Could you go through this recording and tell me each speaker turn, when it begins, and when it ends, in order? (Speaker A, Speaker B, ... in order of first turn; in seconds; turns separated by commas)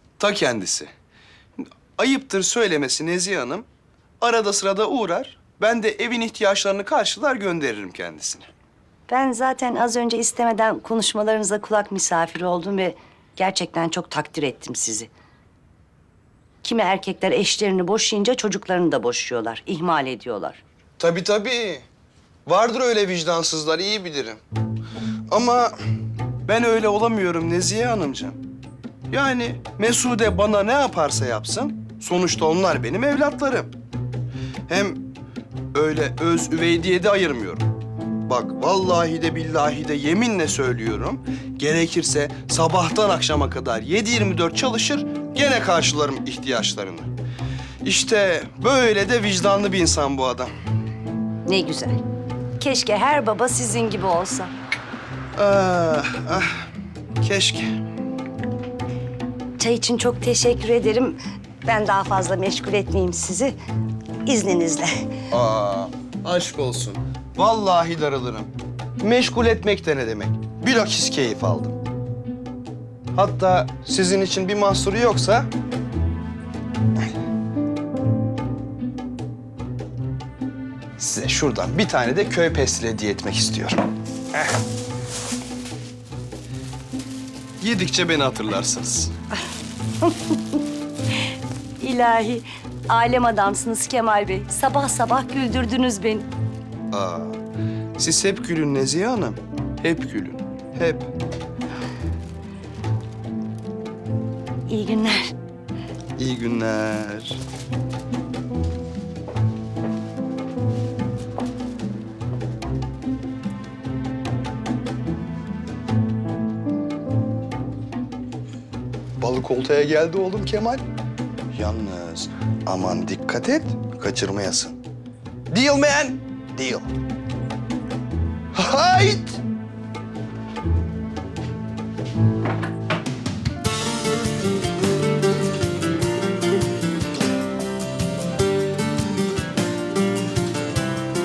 Speaker A: 0.2-0.9, Speaker A: 1.6-3.7, Speaker A: 4.2-8.5, Speaker B: 9.1-15.1, Speaker B: 16.6-20.6, Speaker A: 21.0-21.8, Speaker A: 22.5-24.4, Speaker A: 25.3-25.7, Speaker A: 26.5-28.4, Speaker A: 29.1-33.7, Speaker A: 34.7-35.1, Speaker A: 35.7-37.7, Speaker A: 38.3-47.1, Speaker A: 47.8-50.5, Speaker B: 51.5-52.0, Speaker B: 52.6-54.5, Speaker A: 55.4-56.7, Speaker A: 57.2-57.8, Speaker B: 59.6-63.5, Speaker B: 64.2-65.1, Speaker A: 65.3-71.8, Speaker A: 73.1-75.5, Speaker A: 81.0-83.8, Speaker A: 87.6-89.1, Speaker B: 90.0-90.6, Speaker B: 91.8-96.3, Speaker A: 96.9-97.4, Speaker A: 98.0-101.1, Speaker B: 104.7-105.3, Speaker A: 106.2-107.4, Speaker A: 119.2-120.8, Speaker A: 121.5-124.8, Speaker A: 125.5-126.9, Speaker A: 128.5-129.4